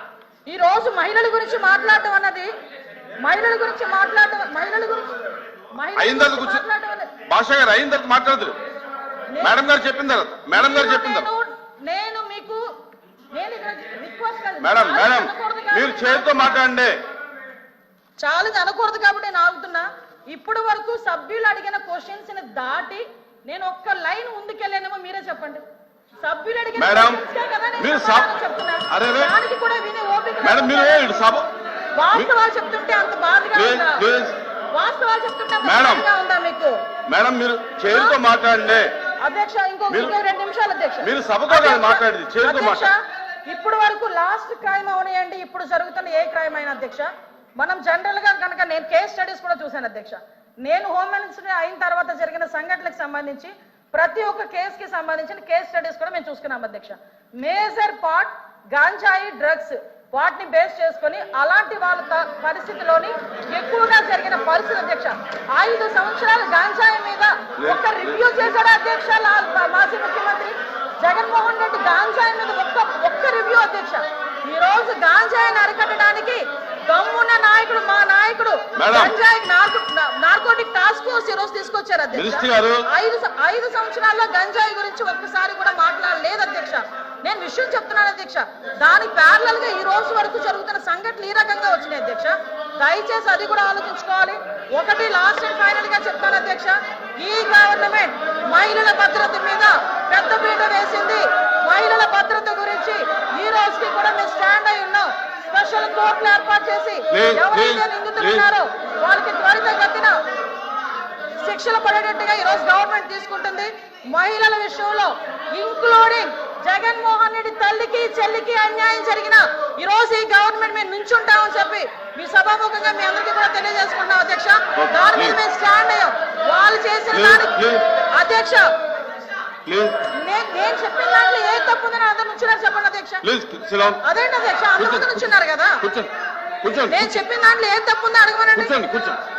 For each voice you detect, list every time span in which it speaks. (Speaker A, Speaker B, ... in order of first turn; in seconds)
Speaker A: 0.5-2.5, 3.2-5.1, 5.7-7.1, 9.3-9.6, 10.5-12.6, 13.3-16.6, 18.2-25.6, 26.2-31.3, 31.9-34.0, 34.7-36.8, 37.9-38.2, 39.2-110.2, 111.4-128.7, 130.1-133.2, 134.0-135.8, 136.9-138.8
Speaker B: 6.0-6.7, 7.3-8.5, 9.4-11.3, 14.6-16.9, 26.8-27.2, 27.8-28.3, 28.9-29.3, 30.4-31.5, 33.5-34.4, 35.6-36.0, 37.1-38.9, 39.9-40.1, 41.0-42.9, 67.6-68.4, 78.7-79.2, 82.1-82.8, 107.1-108.5, 124.7-125.4, 127.1-127.8, 129.7-130.1, 133.2-134.0, 134.8-135.3, 135.8-136.1, 136.6-137.2, 138.5-139.2